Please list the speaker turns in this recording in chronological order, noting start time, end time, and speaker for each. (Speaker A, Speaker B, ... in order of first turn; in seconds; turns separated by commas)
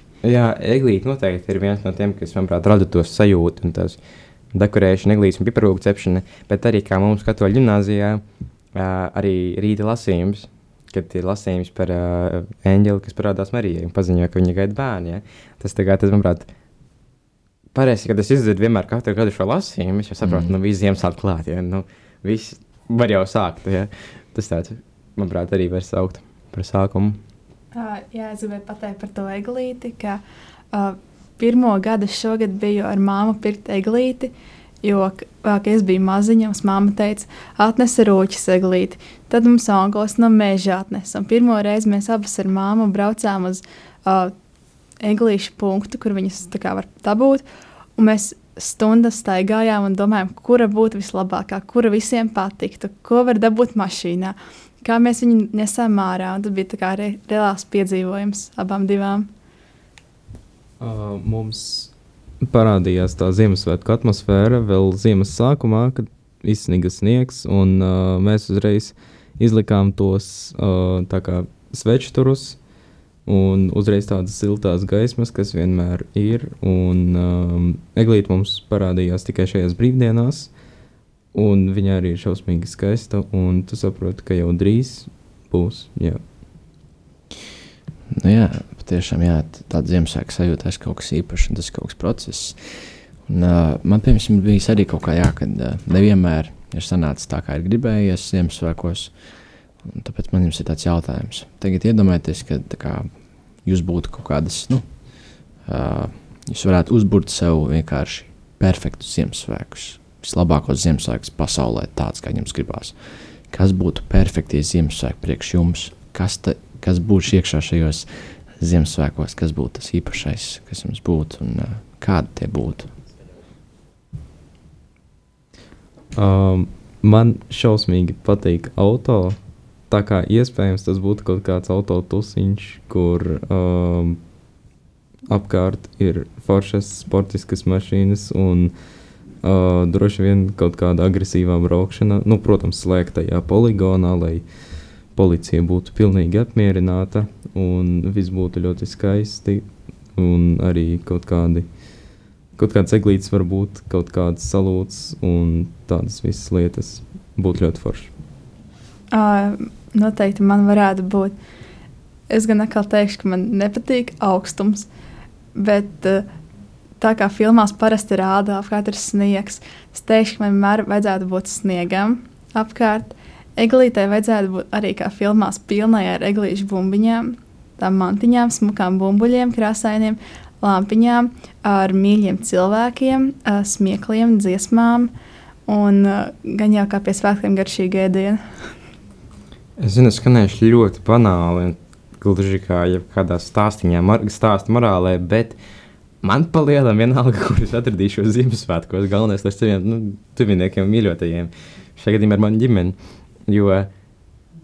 Speaker A: 0.2-4.0, Speaker A: 4.5-8.2, Speaker A: 8.7-16.5, Speaker A: 17.7-27.2, Speaker B: 20.2-20.5, Speaker C: 27.7-30.2, Speaker C: 30.7-34.3, Speaker C: 34.8-44.3, Speaker C: 45.0-47.4, Speaker C: 48.0-59.3, Speaker D: 60.8-72.6, Speaker D: 73.2-80.5, Speaker D: 81.3-86.2, Speaker B: 88.1-99.1, Speaker B: 99.8-103.1, Speaker B: 103.6-104.9, Speaker B: 105.6-113.0, Speaker B: 113.5-122.9, Speaker D: 126.1-129.4, Speaker D: 129.9-134.2, Speaker D: 135.3-138.7, Speaker D: 139.4-144.5, Speaker D: 145.1-151.7, Speaker D: 152.6-158.1, Speaker C: 159.1-161.3, Speaker C: 162.3-164.9, Speaker C: 165.5-166.3, Speaker C: 167.0-185.1, Speaker C: 185.7-188.4, Speaker A: 189.8-195.6, Speaker A: 196.2-203.9